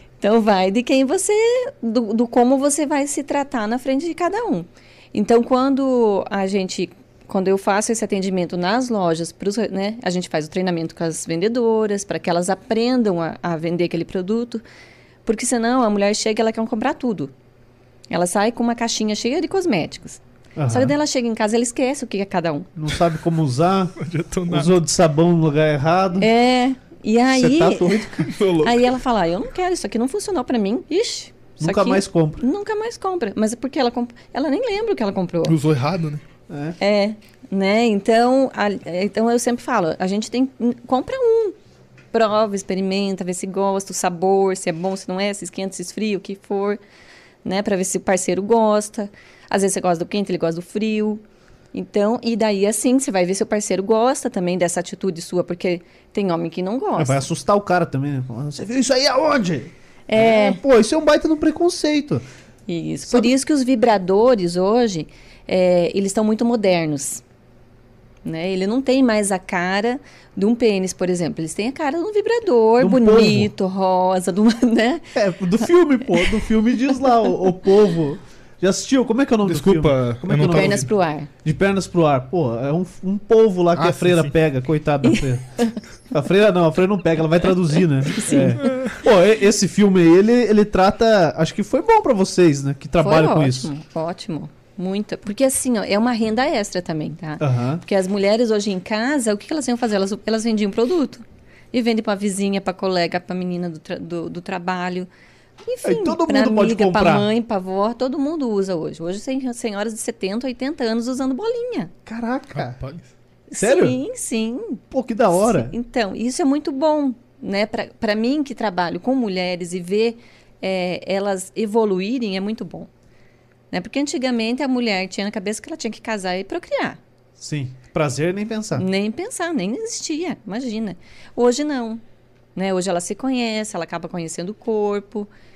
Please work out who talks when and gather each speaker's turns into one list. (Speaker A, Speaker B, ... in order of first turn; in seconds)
Speaker A: 0.2-14.6, 15.3-17.3, 18.1-22.7, 26.2-35.6, 36.8-41.6, 42.1-46.8, 47.4-51.2, 51.7-57.2, 60.1-60.6, 62.7-67.2, 68.2-75.1, 75.6-77.3, 80.5-81.3, 85.0-85.8, 88.1-88.8, 93.0-105.1, 105.6-111.9, 113.5-114.8, 115.3-122.9, 123.7-127.0, 128.8-132.0, 132.6-135.3
Speaker B: 20.6-20.9, 22.8-26.3, 27.3-28.4, 31.6-32.4, 36.5-36.8, 57.0-62.2, 72.8-73.5, 75.2-80.9, 81.4-85.5, 86.1-93.7, 97.4-97.8, 105.8-107.3, 112.1-112.8, 113.6-114.0, 114.9-115.8, 127.4-128.9
Speaker C: 24.0-24.7, 28.2-29.0, 35.5-36.2, 79.5-80.9, 83.8-84.3, 88.6-89.0, 112.5-113.1